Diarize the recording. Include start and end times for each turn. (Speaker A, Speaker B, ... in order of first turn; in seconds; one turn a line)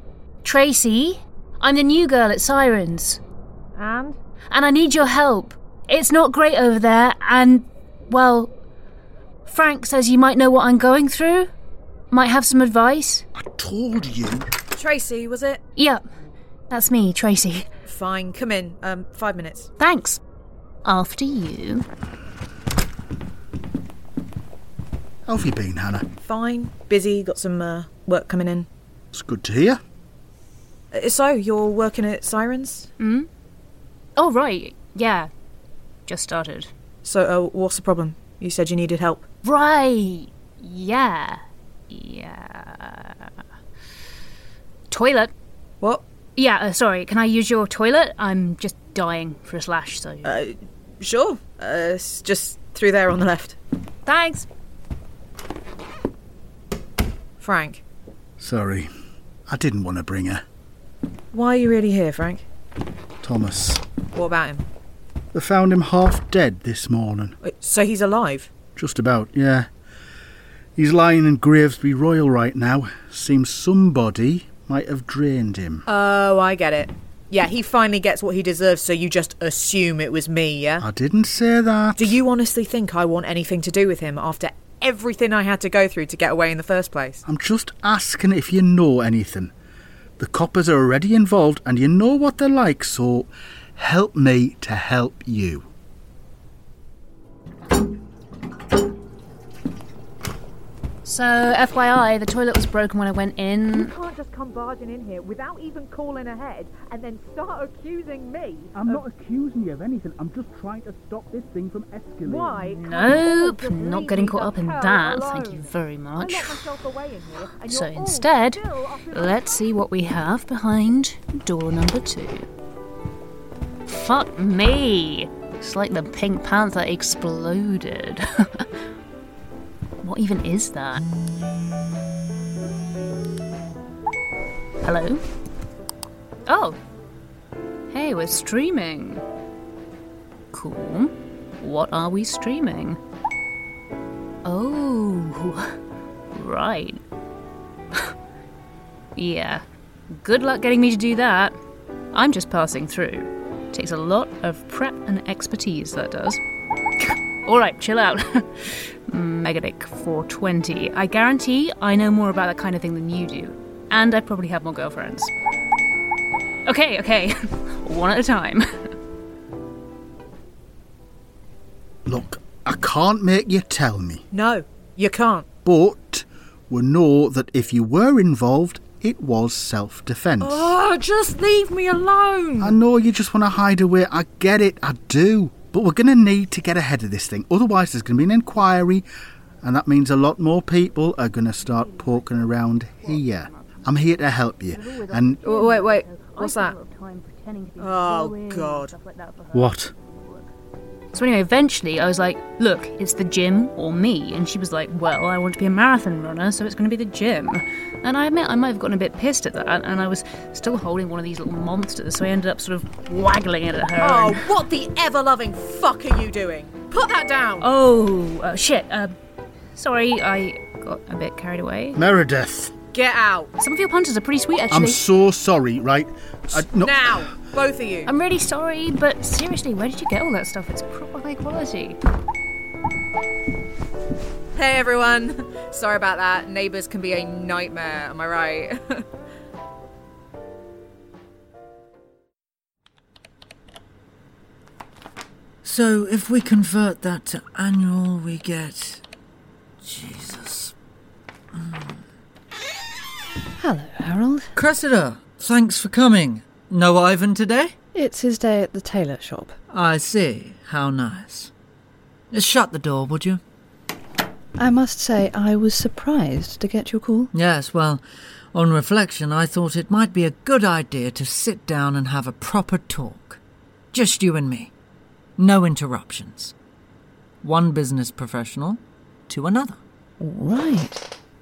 Speaker A: 0.4-3.2
Speaker B: 3.8-4.2
Speaker A: 4.5-8.5
Speaker A: 9.5-11.5
Speaker A: 12.1-13.2
Speaker C: 13.4-14.4
Speaker B: 14.8-15.6
Speaker A: 15.8-16.0
Speaker A: 16.7-17.7
Speaker B: 17.9-19.7
Speaker A: 19.8-20.2
Speaker A: 20.9-21.9
Speaker C: 25.3-26.1
Speaker B: 26.2-28.7
Speaker C: 29.1-29.8
Speaker B: 30.9-32.9
Speaker A: 33.0-33.3
Speaker A: 34.2-35.3
Speaker A: 36.1-36.7
Speaker B: 37.0-39.2
Speaker A: 39.4-43.2
Speaker A: 44.9-45.3
Speaker A: 46.4-50.4
Speaker B: 50.2-53.6
Speaker A: 54.1-54.5
Speaker B: 57.4-57.8
Speaker C: 58.4-58.9
Speaker C: 59.5-60.4
Speaker B: 61.3-62.5
Speaker C: 63.2-63.8
Speaker B: 64.2-64.6
Speaker C: 65.3-67.4
Speaker B: 67.4-68.5
Speaker C: 68.8-69.7
Speaker C: 70.8-75.8
Speaker B: 75.9-80.8
Speaker C: 80.8-82.2
Speaker B: 82.0-87.2
Speaker C: 87.3-89.5
Speaker C: 90.2-95.7
Speaker A: 101.1-104.0
Speaker B: 103.7-109.0
Speaker C: 108.7-112.6
Speaker B: 112.2-119.7
Speaker A: 112.6-116.7
Speaker A: 117.7-122.5
Speaker A: 123.9-128.7
Speaker A: 130.0-131.0
Speaker A: 134.8-135.2
Speaker A: 136.5-136.8
Speaker A: 137.9-139.2
Speaker A: 140.5-143.0
Speaker A: 144.4-145.8
Speaker A: 146.3-147.0
Speaker A: 149.2-151.6
Speaker A: 152.1-156.4
Speaker A: 157.0-165.3
Speaker A: 166.7-168.9
Speaker C: 172.1-174.2
Speaker B: 174.3-175.5
Speaker C: 175.7-180.8
Speaker B: 180.4-182.8
Speaker C: 182.6-189.1
Speaker C: 189.6-195.4
Speaker A: 191.7-193.9
Speaker A: 194.7-200.5
Speaker B: 195.4-196.8
Speaker B: 197.8-198.9
Speaker C: 199.5-199.9
Speaker A: 201.1-214.6
Speaker B: 214.0-217.7
Speaker A: 217.6-219.1
Speaker A: 219.8-222.0
Speaker C: 222.0-222.8
Speaker B: 222.9-223.5
Speaker A: 223.6-225.0
Speaker C: 224.7-227.3
Speaker B: 226.5-228.1
Speaker A: 228.1-232.0
Speaker B: 234.6-239.0
Speaker D: 245.6-249.0
Speaker D: 249.8-250.7
Speaker D: 251.5-252.0
Speaker E: 253.6-254.5
Speaker D: 254.6-257.8
Speaker E: 257.9-259.6
Speaker D: 259.7-261.5
Speaker D: 262.3-263.4
Speaker E: 264.6-267.3
Speaker D: 267.3-268.0
Speaker D: 268.5-273.4
Speaker D: 273.9-274.7
Speaker D: 275.4-276.5
Speaker D: 277.4-279.8
Speaker E: 280.2-281.1